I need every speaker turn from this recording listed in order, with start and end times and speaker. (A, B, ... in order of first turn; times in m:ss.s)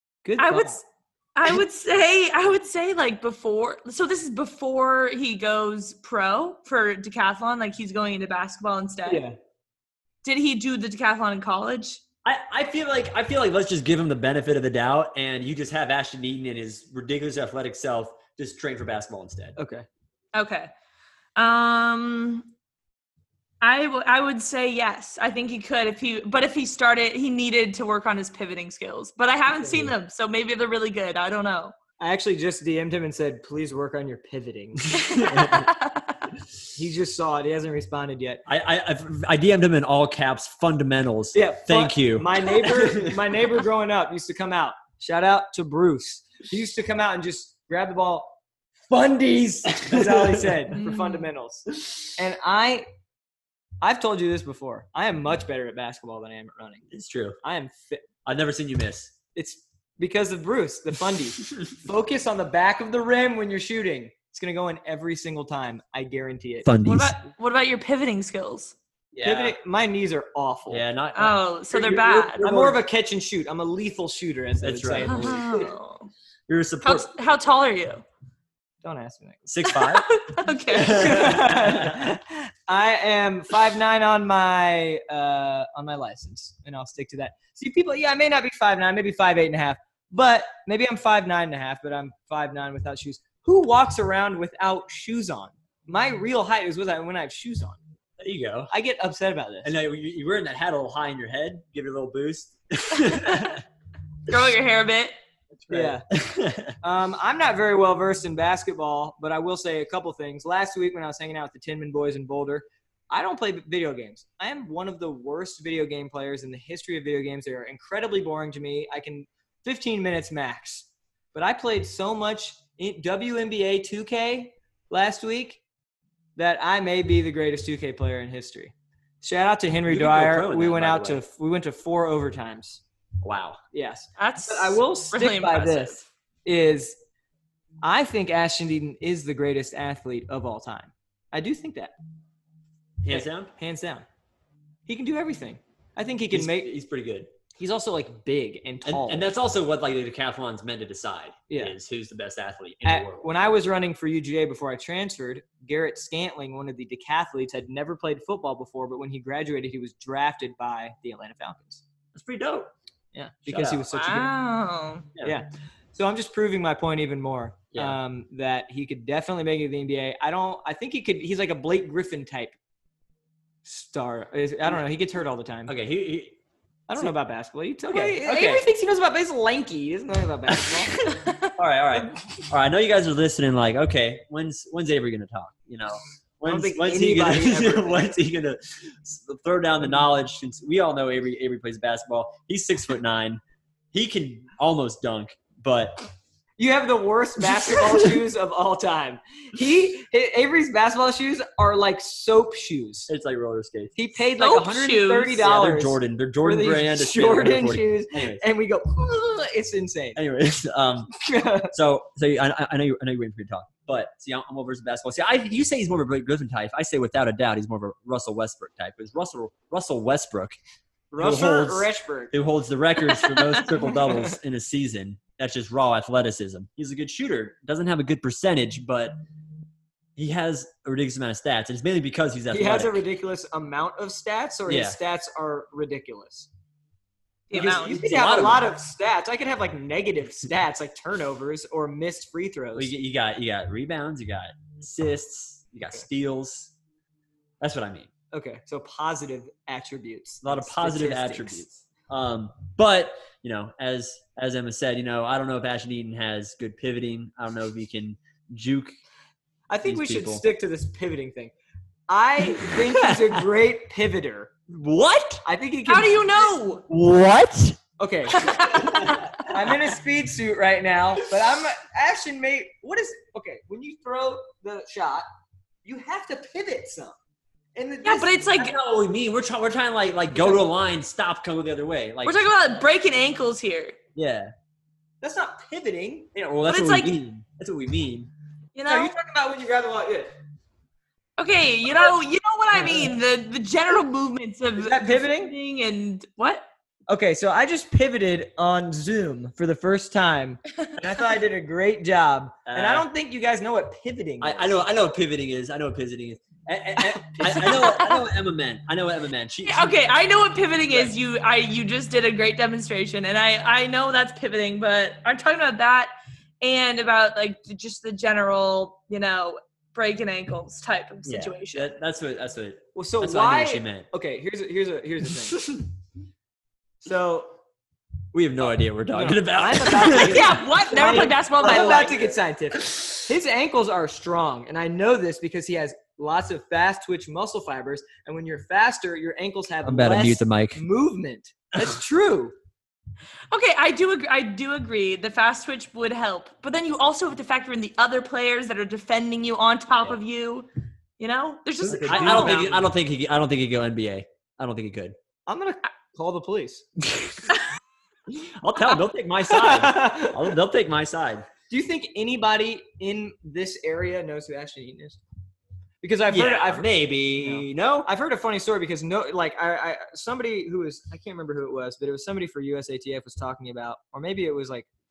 0:00.2-0:00.8 A
0:00.4-0:00.8 B
0:01.4-0:09.2 B
0:09.0-0:09.4 A
0:10.2-0:12.0 B
0:12.2-0:19.6 C
0:19.6-0:19.8 A
0:20.3-0:20.7 B
0:21.4-0:22.5 B
0:23.6-0:31.7 B
0:29.6-0:29.9 A
0:32.0-0:35.6 A
0:35.0-0:36.2 B
0:35.2-0:35.6 C
0:36.7-0:38.4 A
0:38.5-0:43.1 C
0:41.3-0:52.8 A
0:49.8-0:50.4 C
0:50.7-0:51.3 B
0:53.8-0:56.9 A
0:56.9-0:57.4 C
0:57.4-0:58.1 A
0:58.2-0:59.1 C
0:59.3-1:06.7 A
1:06.6-1:07.2 C
1:06.8-1:08.7 B
1:09.1-1:09.5 C
1:09.2-1:10.8 A
1:10.7-1:12.8 C
1:11.1-1:12.5 B
1:11.7-1:15.6 A
1:14.6-1:15.6 C
1:15.0-1:16.1 B
1:16.5-1:17.1 C
1:16.8-1:18.0 B
1:18.8-1:19.5 A
1:19.4-1:20.1 C
1:19.6-1:21.4 B
1:20.7-1:22.1 C
1:20.8-1:37.8 A
1:38.2-1:38.7 C
1:38.7-1:39.7 A
1:39.6-1:43.6 C
1:43.0-1:43.4 B
1:44.2-1:45.1 B
1:45.5-1:46.8 C
1:45.7-1:46.0 A
1:46.8-2:05.6 A
2:06.4-2:12.8 A
2:09.9-2:11.2 C
2:13.2-2:13.6 C
2:13.7-2:17.0 A
2:14.2-2:16.0 B
2:17.8-2:21.9 A
2:23.0-2:23.5 C
2:23.1-2:24.0 A
2:24.8-2:26.7 A
2:26.3-2:27.3 C
2:27.5-2:29.3 A
2:28.8-2:33.3 C
2:31.5-2:31.7 A
2:32.8-2:41.8 A
2:42.1-2:42.7 C
2:43.1-2:44.3 A
2:43.4-2:43.8 C
2:43.8-2:45.1 B
2:45.2-2:52.6 A
2:53.6-2:55.7 A
2:55.7-2:56.4 C
2:56.9-3:01.0 A
2:57.8-2:58.7 B
3:01.1-3:01.4 B
3:01.6-3:13.4 C
3:06.4-3:08.2 A
3:13.9-3:16.0 C
3:16.6-3:23.1 A
3:23.1-3:23.9 C
3:24.0-3:30.2 A
3:24.4-3:25.4 B
3:25.4-3:28.4 C
3:30.1-3:31.1 C
3:31.2-3:31.7 A
3:31.7-3:40.6 C
3:41.1-3:42.3 A
3:41.2-3:49.2 C
3:50.2-3:53.0 C
3:52.5-3:56.5 A
3:54.7-3:55.0 C
3:57.5-3:58.0 B
3:57.5-4:02.9 A
3:57.6-3:58.7 C
4:02.7-4:06.7 C
4:07.6-4:08.1 C
4:08.3-4:11.7 A
4:10.4-4:18.9 C
4:19.7-4:21.5 A
4:19.8-4:20.4 C
4:22.1-4:24.5 A
4:22.5-4:23.4 C
4:24.7-4:25.4 C
4:25.4-4:26.6 A
4:25.9-4:26.8 B
4:26.9-4:27.8 C
4:28.0-4:35.2 A
4:28.3-4:29.3 B
4:28.8-4:29.2 C
4:35.8-4:37.2 A
4:37.7-4:38.6 A
4:38.0-4:38.8 B
4:38.6-4:42.5 C
4:42.2-4:44.0 B
4:44.2-4:44.5 C
4:45.2-4:46.3 A
4:46.3-4:48.3 C
4:46.7-4:47.2 B
4:48.7-4:49.1 B
4:48.9-4:50.4 A
4:51.4-4:56.6 B
4:52.7-4:53.1 A
4:54.8-4:55.5 A
4:57.1-5:04.7 A
5:02.6-5:03.0 C
5:04.4-5:10.2 C
5:07.4-5:07.7 A
5:07.4-5:08.2 B
5:09.6-5:21.9 B
5:10.9-5:11.1 C
5:21.2-5:24.1 C
5:22.9-5:25.8 A
5:27.0-5:27.6 A
5:28.3-5:30.6 C
5:29.1-5:42.5 A
5:30.1-5:32.3 B
5:39.8-5:40.8 C
5:43.5-5:50.7 B
5:51.2-5:52.8 B
5:51.8-5:52.8 A
5:51.8-5:55.1 C
5:55.5-5:56.8 A
5:58.3-6:01.5 C
5:59.5-6:00.4 A
6:01.7-6:05.2 A
6:06.0-6:14.9 A
6:06.3-6:08.1 C